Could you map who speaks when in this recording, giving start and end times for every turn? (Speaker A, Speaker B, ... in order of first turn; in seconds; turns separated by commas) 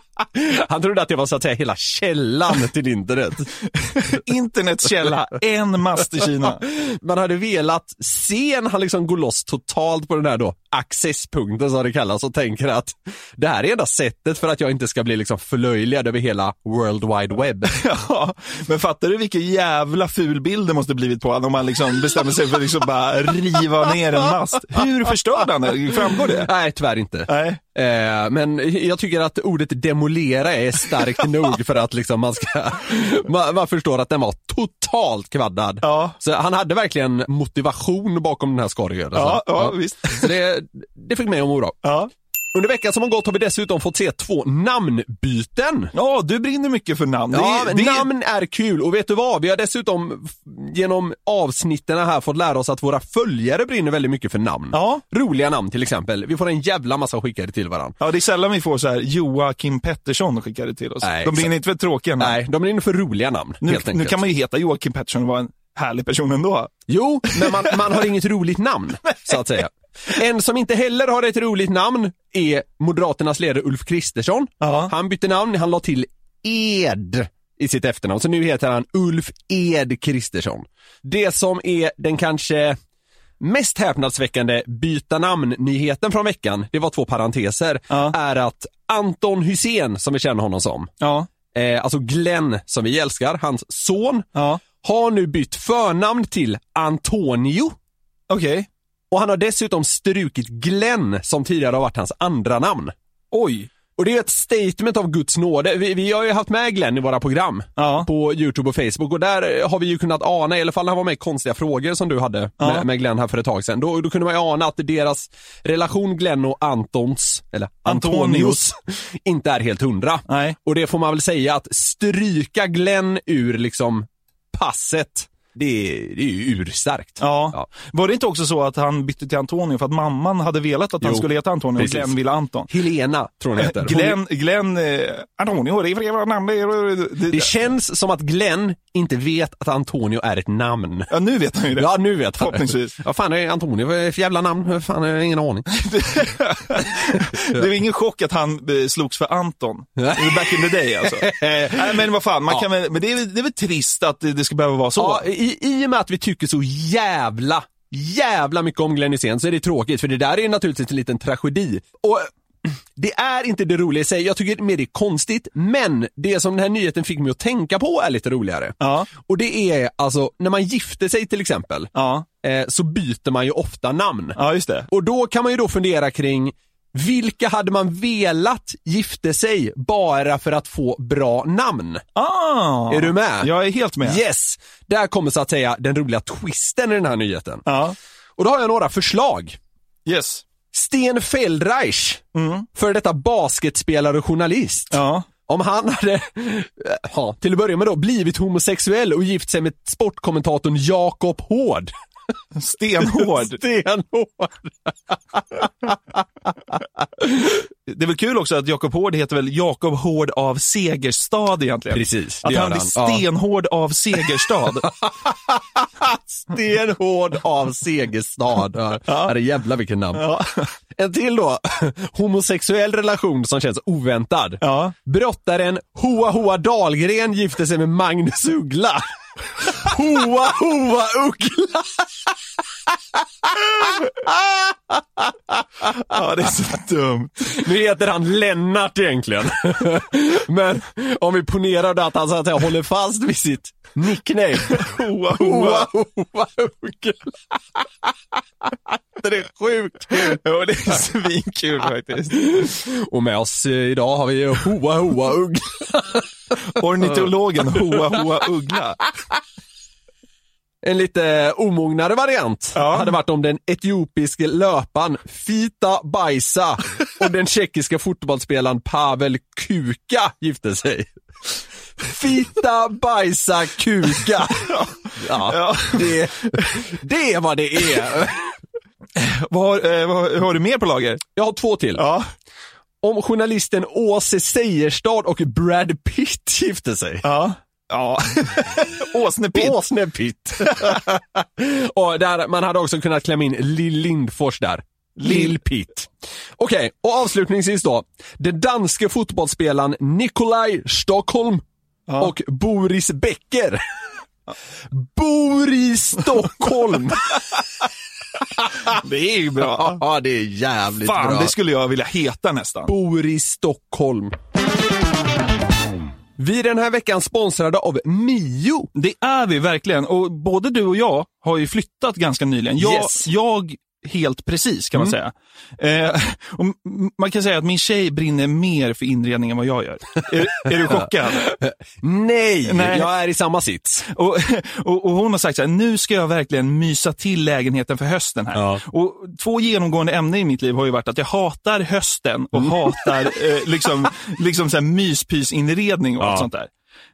Speaker A: 0.3-3.5, Speaker B: 3.8-6.6, Speaker A: 6.4-17.8, Speaker B: 17.7-26.5, Speaker A: 26.4-41.8, Speaker B: 27.3-27.6, Speaker B: 35.8-36.1, Speaker B: 39.1-40.3, Speaker B: 41.8-42.1, Speaker A: 42.5-45.9, Speaker B: 45.9-48.1, Speaker A: 47.3-58.0, Speaker B: 54.7-55.0, Speaker B: 58.0-62.4, Speaker A: 61.0-61.5, Speaker A: 62.2-64.2, Speaker B: 63.6-66.7, Speaker A: 66.9-82.8, Speaker B: 67.3-67.5, Speaker B: 74.6-74.9, Speaker A: 83.4-90.9, Speaker B: 91.0-91.3, Speaker A: 91.5-94.3, Speaker B: 94.3-94.6, Speaker A: 94.8-97.8, Speaker B: 98.3-98.7, Speaker A: 99.1-102.9, Speaker B: 103.3-103.7, Speaker A: 104.0-127.7, Speaker B: 107.8-108.1, Speaker B: 112.6-112.8, Speaker B: 117.8-118.6, Speaker B: 120.3-120.6, Speaker B: 127.2-132.7, Speaker A: 131.0-132.1, Speaker A: 132.7-134.2, Speaker B: 133.6-137.5, Speaker A: 137.3-141.1, Speaker B: 141.1-142.9, Speaker A: 141.8-145.7, Speaker B: 145.7-155.2, Speaker A: 147.2-147.7, Speaker A: 150.0-152.6, Speaker A: 154.9-171.9, Speaker B: 168.8-169.1, Speaker B: 171.9-172.2, Speaker A: 172.4-174.4, Speaker B: 174.3-174.9, Speaker A: 174.9-182.0, Speaker B: 182.2-184.2, Speaker A: 182.9-187.6, Speaker B: 187.7-187.9, Speaker A: 188.4-189.6, Speaker B: 190.1-190.4, Speaker A: 190.7-192.2, Speaker B: 192.3-192.7, Speaker A: 192.7-201.9, Speaker B: 194.9-195.3, Speaker B: 202.6-203.6, Speaker A: 203.0-207.5, Speaker B: 207.9-214.9, Speaker A: 211.9-213.2, Speaker A: 214.8-220.3, Speaker B: 219.1-219.3, Speaker B: 220.1-220.7, Speaker A: 220.9-229.0, Speaker B: 224.6-224.9, Speaker A: 229.6-232.3, Speaker A: 232.9-235.9, Speaker B: 235.9-237.6, Speaker A: 237.5-248.1, Speaker B: 244.7-245.9, Speaker A: 248.6-250.4, Speaker B: 250.2-252.7, Speaker A: 252.3-256.3, Speaker B: 256.7-259.1, Speaker A: 257.0-258.2, Speaker A: 260.8-271.1, Speaker B: 262.7-263.1, Speaker A: 272.0-278.5, Speaker B: 274.7-276.8, Speaker B: 279.1-281.2, Speaker A: 281.3-282.0, Speaker B: 281.9-282.2, Speaker A: 283.0-287.3, Speaker B: 287.2-289.8, Speaker A: 289.5-301.6, Speaker B: 295.2-295.6, Speaker B: 302.1-302.3, Speaker A: 302.2-303.8, Speaker A: 304.9-307.4, Speaker A: 308.6-308.9, Speaker B: 308.9-310.0, Speaker A: 309.7-311.5, Speaker B: 311.0-312.9, Speaker A: 312.9-314.4, Speaker A: 316.4-318.9, Speaker B: 318.9-331.5, Speaker A: 322.8-323.2, Speaker A: 330.7-334.0, Speaker B: 332.7-333.1, Speaker B: 334.1-346.7, Speaker A: 338.5-338.8, Speaker A: 342.5-343.1, Speaker A: 346.2-346.5